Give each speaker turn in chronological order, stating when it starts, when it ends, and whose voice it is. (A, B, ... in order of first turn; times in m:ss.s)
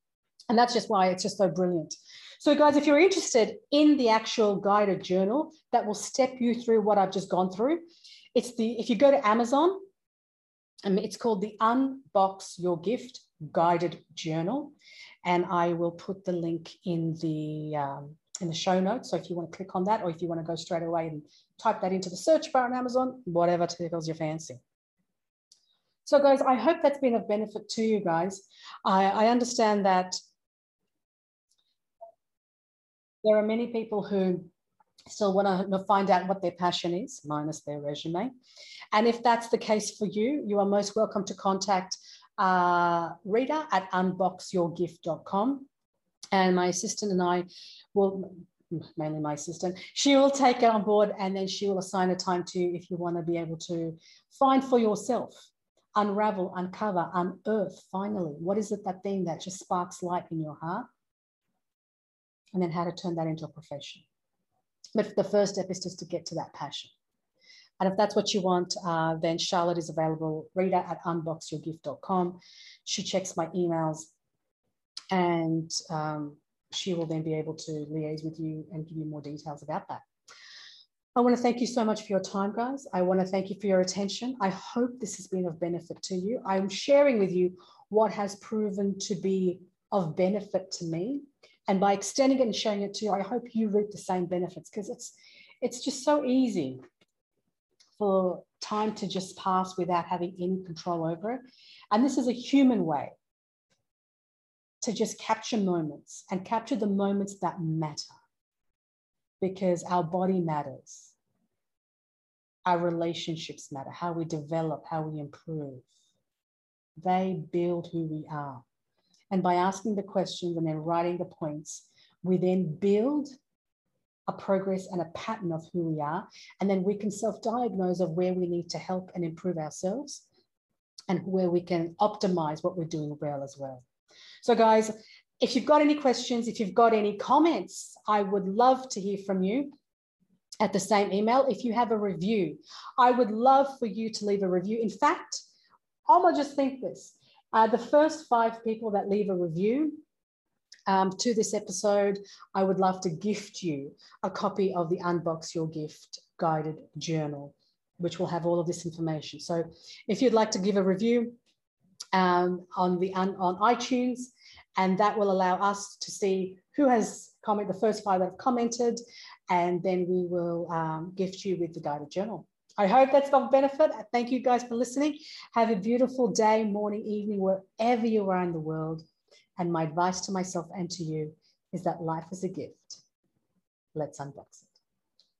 0:00.5-0:07.8 A
0:08.3-0:09.8 A
0:10.8-0:24.6 A
0:26.0-0:30.2 A
0:33.2-0:34.5 A
0:35.1-0:38.3 A
0:38.9-0:45.7 A
0:46.3-1:00.9 A
1:02.5-1:04.0 A
1:04.9-1:06.9 A
1:07.8-1:14.1 A
1:15.1-1:20.0 A
1:21.1-1:36.8 A
1:38.0-1:43.2 A
1:44.8-1:48.2 A
1:49.4-1:51.1 A
1:52.6-1:55.9 A
1:57.0-1:58.6 A
1:59.3-2:03.3 A
2:04.3-2:10.2 A
2:11.1-2:13.8 A
2:14.4-2:19.7 A
2:20.6-2:25.4 A
2:26.1-2:30.0 A
2:30.9-2:41.4 A
2:42.1-2:59.0 A
2:59.6-3:03.0 A
3:03.9-3:04.8 A